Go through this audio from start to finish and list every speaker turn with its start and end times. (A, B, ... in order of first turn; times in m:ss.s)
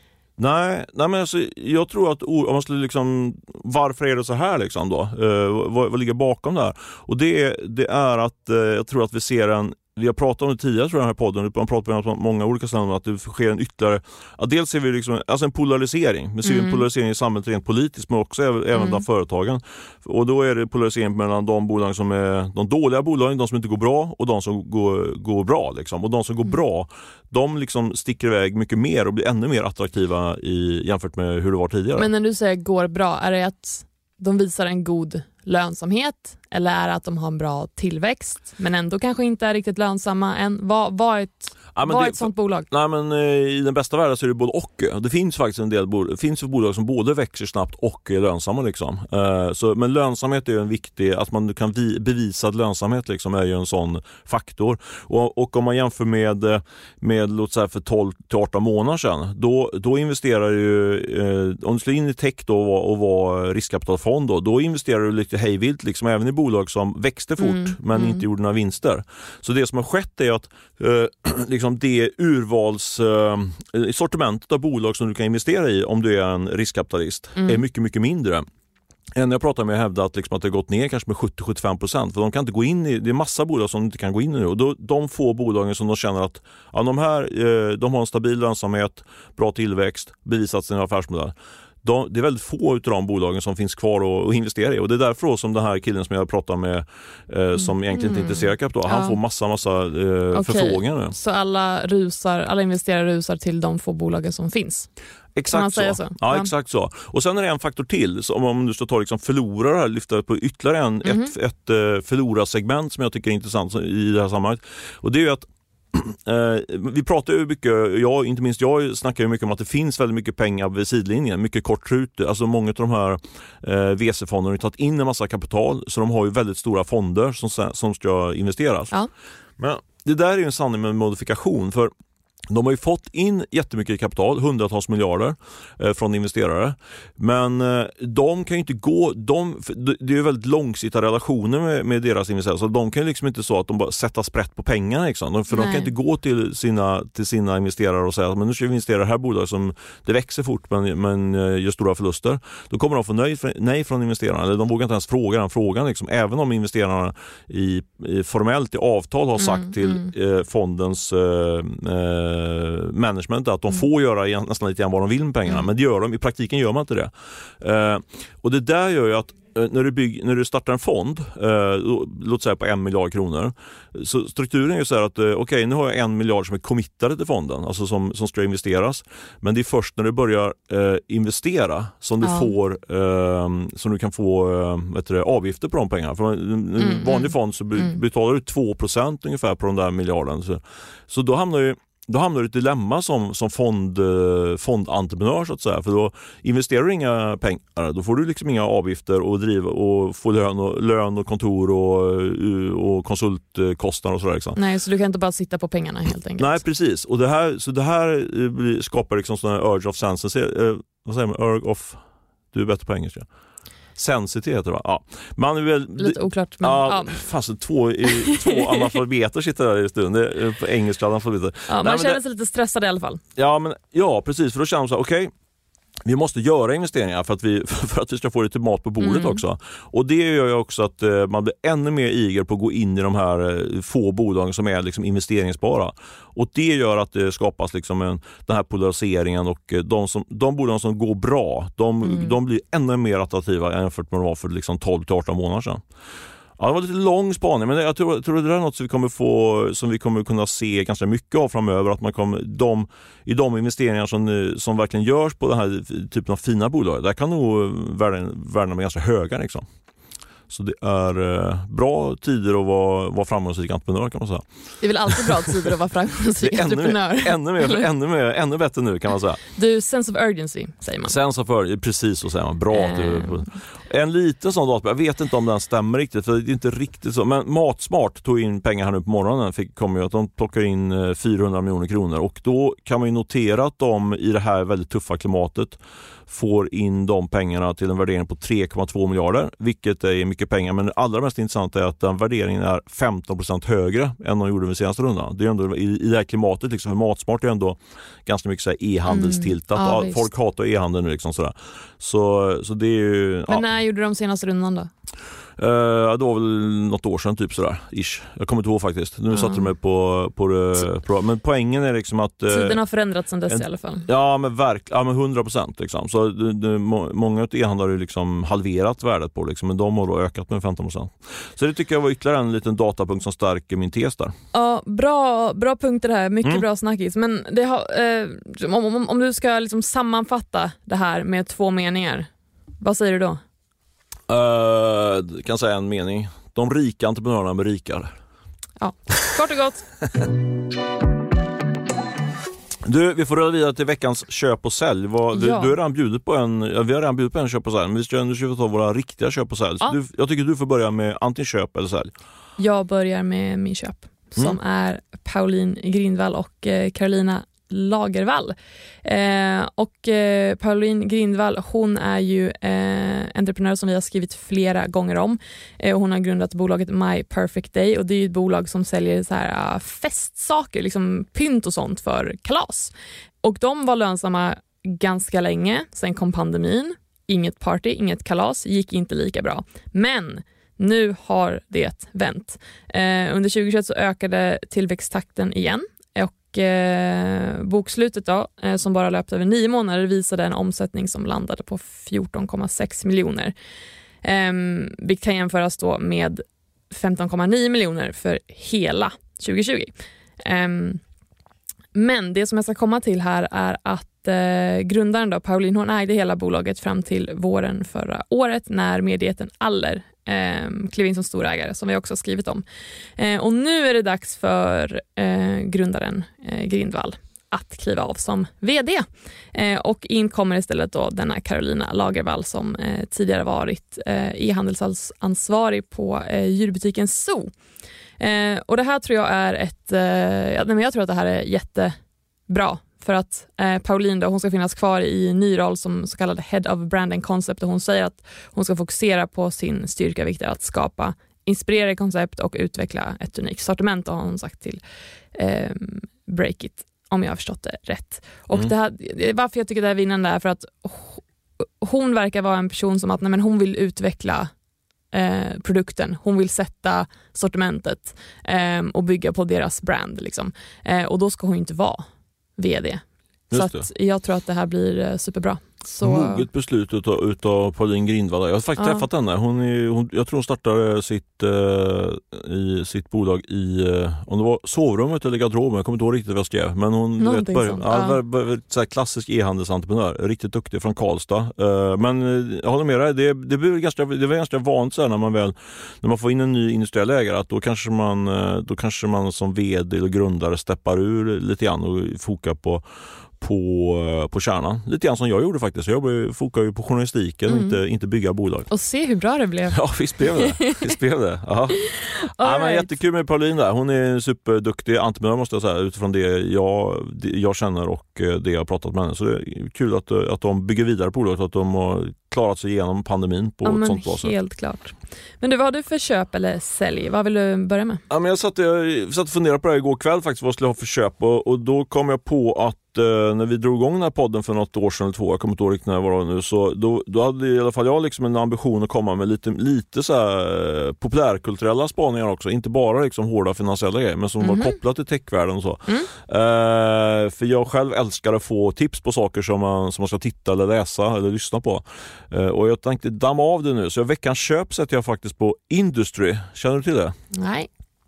0:00.4-0:32.1 A
0:16.5-0:16.8 B
0:18.7-0:19.0 B
0:32.0-0:42.7 B
0:41.7-1:18.4 A
1:07.4-1:08.2 B
1:19.1-1:41.1 A
1:37.9-1:39.2 B
1:40.3-1:44.9 B
1:45.4-2:08.9 A
1:45.5-1:46.5 B
1:51.0-1:51.3 B
2:09.6-2:11.9 A
2:12.5-3:24.6 A
2:25.5-2:25.9 B
2:39.4-2:40.1 B
3:02.2-3:02.5 B
3:06.8-3:08.0 B
3:24.5-3:26.6 B
3:26.4-3:32.0 A
3:32.5-3:33.3 A
3:34.0-3:42.2 A
3:36.0-3:37.2 B
3:38.1-3:38.8 B
3:41.7-3:43.2 B
3:43.4-3:45.3 A
3:46.0-4:05.8 A
3:49.0-3:49.4 B
4:02.0-4:02.3 B
4:06.6-4:19.6 A
4:20.5-4:24.5 A
4:24.8-4:27.8 B
4:25.1-4:25.5 A
4:26.4-4:29.4 A
4:29.5-4:31.2 B
4:31.0-5:03.6 A
4:32.7-4:33.5 B
4:59.1-5:00.2 B
5:03.5-5:04.9 B
5:05.6-5:12.8 A
5:09.3-5:09.6 B
5:12.5-5:14.1 B
5:13.5-5:24.3 A
5:24.5-5:32.3 B
5:32.8-5:33.4 B
5:34.3-5:38.1 A
5:38.8-5:39.8 B
5:42.8-5:52.1 A
5:45.3-5:45.7 B
5:52.6-6:33.5 B
6:34.2-6:41.0 B
6:41.9-6:52.6 B
6:53.2-7:07.5 B
7:08.2-7:11.9 B
7:12.5-7:24.8 B
7:25.3-7:34.5 B
7:35.1-7:42.0 B
7:42.6-7:46.4 B
7:43.5-7:43.8 A
7:46.0-8:12.8 A
7:48.8-7:49.0 B
7:57.2-7:58.2 B
8:13.4-8:18.7 A
8:17.5-8:17.8 B
8:18.7-8:19.8 B
8:19.7-8:34.3 A
8:20.3-8:20.8 B
8:21.9-8:22.9 B
8:33.6-8:38.0 B
8:38.1-9:07.1 A
8:54.4-8:54.8 B
9:07.3-9:07.7 B